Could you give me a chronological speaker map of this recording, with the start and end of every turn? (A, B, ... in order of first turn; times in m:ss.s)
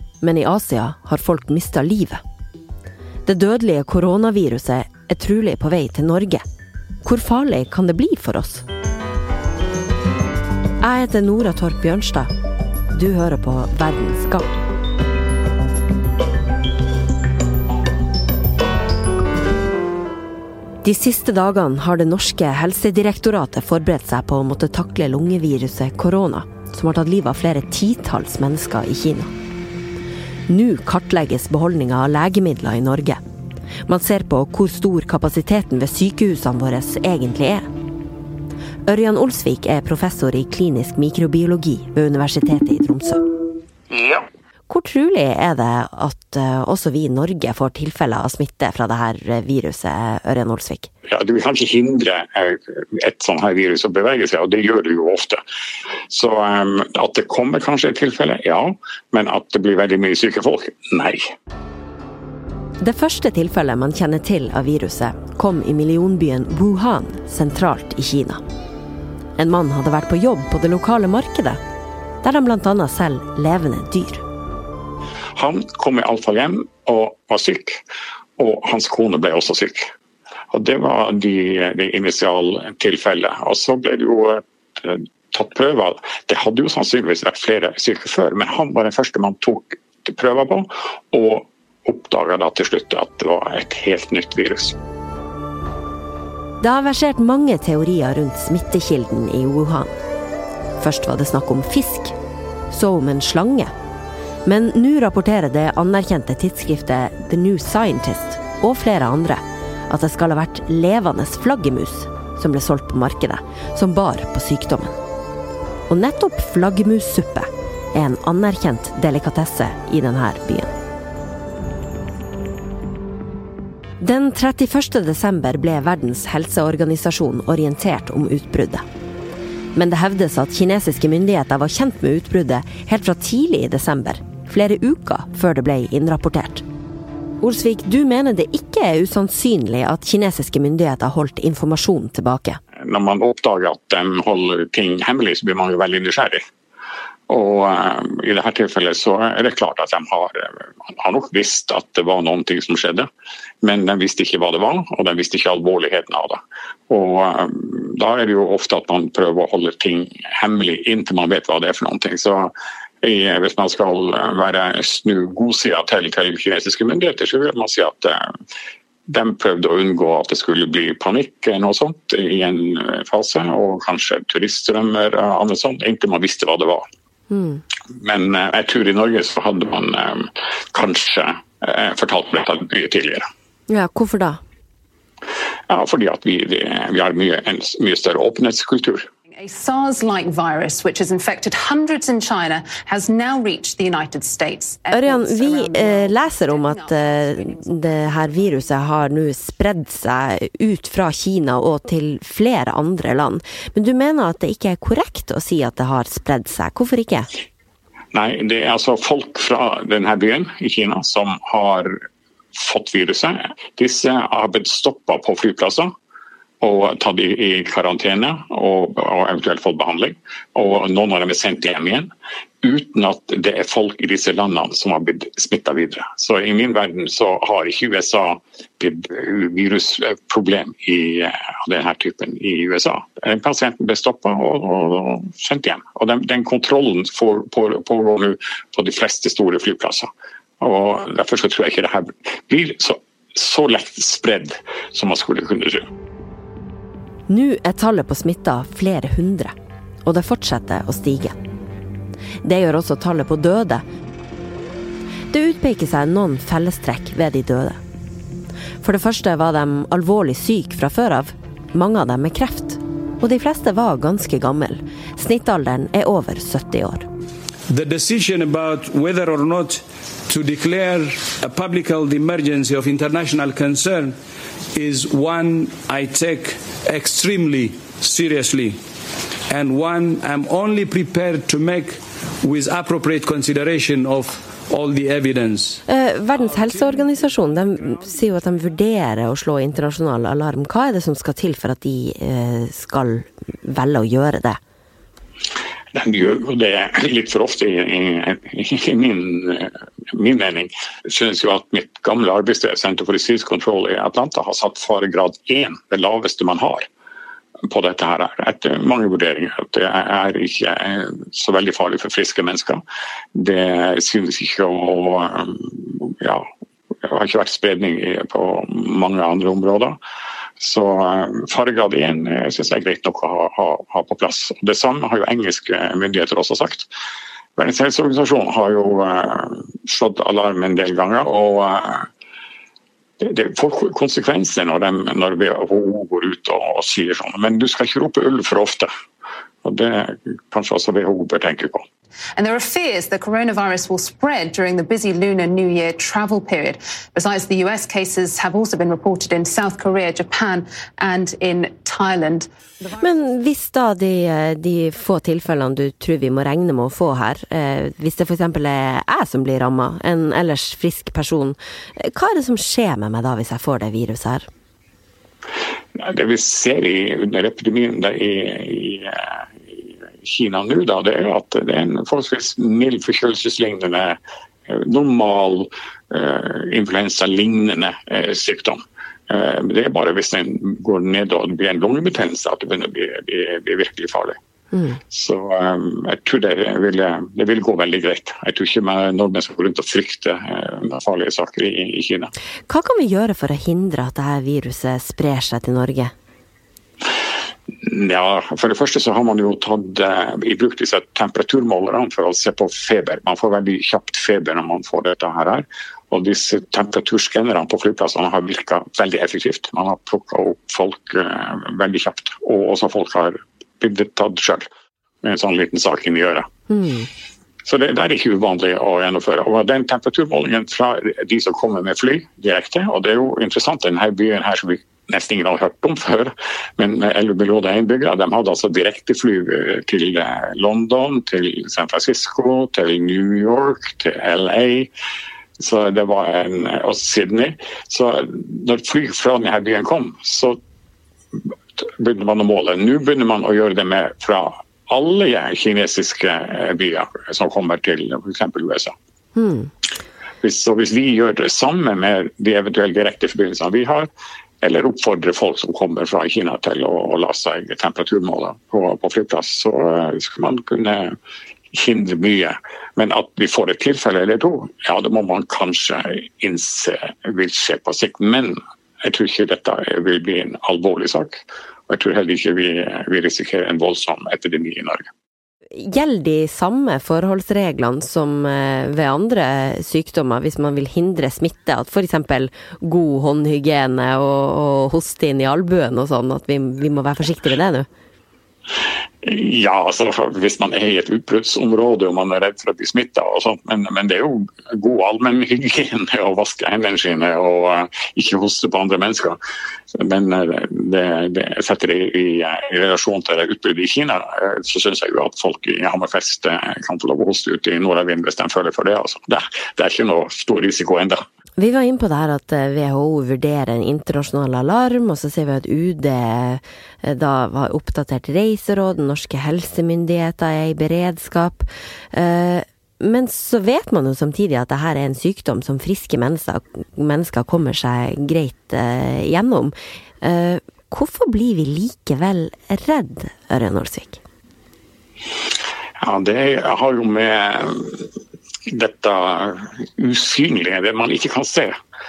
0:00.2-0:02.2 A
0:03.2-0:06.4 A
0:07.0-0:08.6 A
0:10.8-0:12.3 A
0:12.9-0:14.5 A
0:20.8-0:29.3 A
0:30.5-0:33.2 A
0:33.8-0:37.7 A
0:38.9-0:43.2 A
0:43.9-0:44.2 B
0:44.7-0:50.9 A
0:51.1-0:55.4 B
0:56.1-1:01.2 B
1:02.8-1:08.4 A
1:09.4-1:11.6 A
1:12.2-1:14.2 A
1:15.4-1:17.8 B
1:18.4-1:19.9 B
1:20.5-1:34.8 B
1:36.6-1:39.9 A
1:40.8-1:42.1 A
1:42.7-1:43.7 A
1:44.4-1:54.9 A
1:55.9-2:00.7 A
2:04.0-2:08.8 A
2:09.7-2:16.6 A
2:17.4-2:22.6 A
2:22.8-2:26.4 B
2:27.3-2:33.1 B
2:33.6-2:42.5 B
2:43.0-2:48.2 B
2:49.1-2:56.8 B
2:57.3-2:57.6 A
2:58.0-3:03.2 B
3:03.7-3:04.4 A
3:05.7-3:09.1 B
3:09.4-3:18.3 C
3:14.9-3:27.3 A
3:28.1-3:32.0 B
3:32.6-3:35.9 B
3:36.6-3:42.1 B
3:42.6-4:05.8 B
4:07.3-4:09.5 A
4:10.0-4:11.4 A
4:12.4-4:13.8 A
4:15.3-4:17.8 A
4:18.8-4:27.1 A
4:27.7-4:34.2 D
4:34.7-4:38.8 D
4:39.5-4:45.8 D
4:45.9-4:54.6 A
4:55.9-5:06.8 B
5:07.7-5:12.8 B
5:13.3-5:16.5 B
5:17.0-5:20.0 B
5:20.6-5:26.9 B
5:27.6-5:32.1 B
5:33.2-5:38.9 B
5:39.6-5:41.8 B
5:42.4-5:52.5 C
5:53.0-6:04.5 A
6:06.0-6:18.8 B
6:19.3-6:24.4 B
6:24.7-6:25.0 A
6:25.1-6:32.3 B
6:32.7-6:36.1 A
6:37.8-6:54.7 B
6:55.2-6:56.5 B
6:56.7-6:57.1 A
6:57.6-7:14.9 B
7:15.6-7:20.6 B
7:21.8-7:28.9 B
7:29.4-7:29.7 A
7:30.4-7:34.1 B
7:34.6-7:41.1 B
7:41.7-7:55.0 B
7:55.7-8:07.9 A
8:09.2-8:19.4 B
8:20.0-8:31.2 B
8:31.6-8:54.2 A
8:56.0-8:58.1 B
8:58.7-9:01.8 B